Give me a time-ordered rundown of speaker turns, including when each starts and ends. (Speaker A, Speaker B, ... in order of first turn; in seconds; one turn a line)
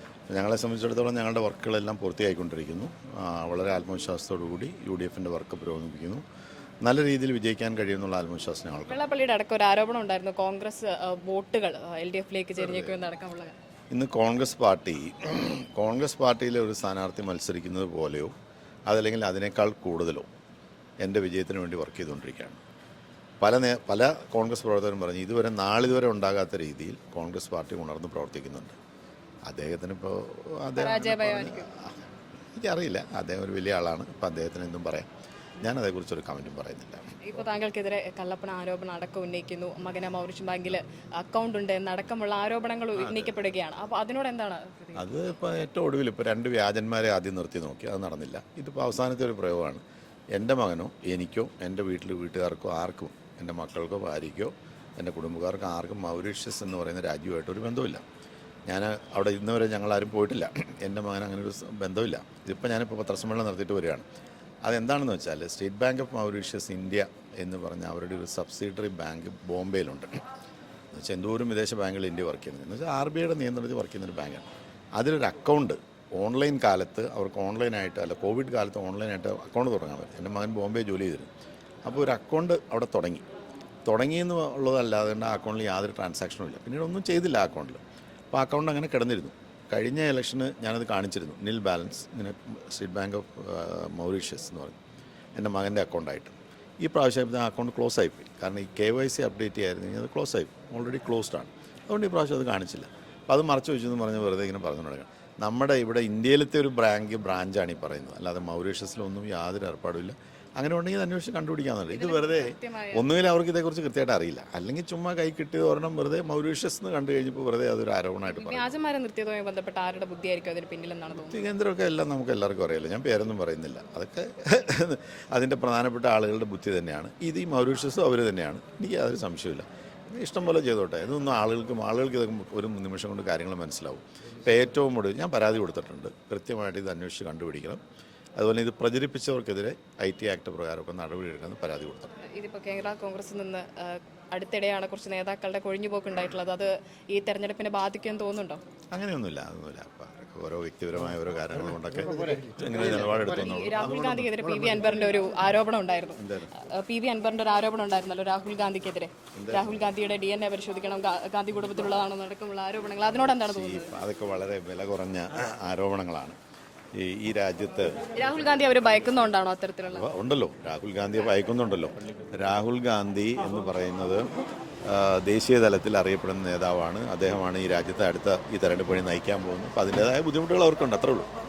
Speaker A: 0.3-6.2
Speaker A: 6.8-9.0
Speaker B: 8.9-13.6
Speaker A: 12.6-12.9
Speaker A: 13.9-18.3
Speaker A: 18.9-20.3
Speaker A: 21.0-22.6
Speaker A: 23.4-28.8
Speaker A: 29.5-35.1
Speaker B: 30.8-31.7
Speaker A: 35.6-37.1
Speaker B: 37.2-45.0
Speaker A: 43.0-43.5
Speaker A: 45.0-49.8
Speaker A: 50.3-58.0
Speaker A: 58.7-64.0
Speaker A: 64.7-70.2
Speaker A: 70.9-81.3
Speaker A: 81.9-83.2
Speaker A: 83.9-87.8
Speaker A: 88.3-94.8
Speaker A: 95.4-118.7
Speaker B: 111.9-113.0
Speaker B: 118.3-121.5
Speaker A: 121.2-137.8
Speaker A: 138.4-142.1
Speaker B: 142.2-148.6
Speaker A: 148.9-154.3
Speaker B: 153.2-163.9
Speaker A: 156.2-156.5
Speaker A: 159.3-159.9
Speaker A: 163.2-166.4
Speaker A: 166.9-168.1
Speaker B: 168.2-170.1
Speaker A: 169.9-174.2
Speaker A: 174.9-181.3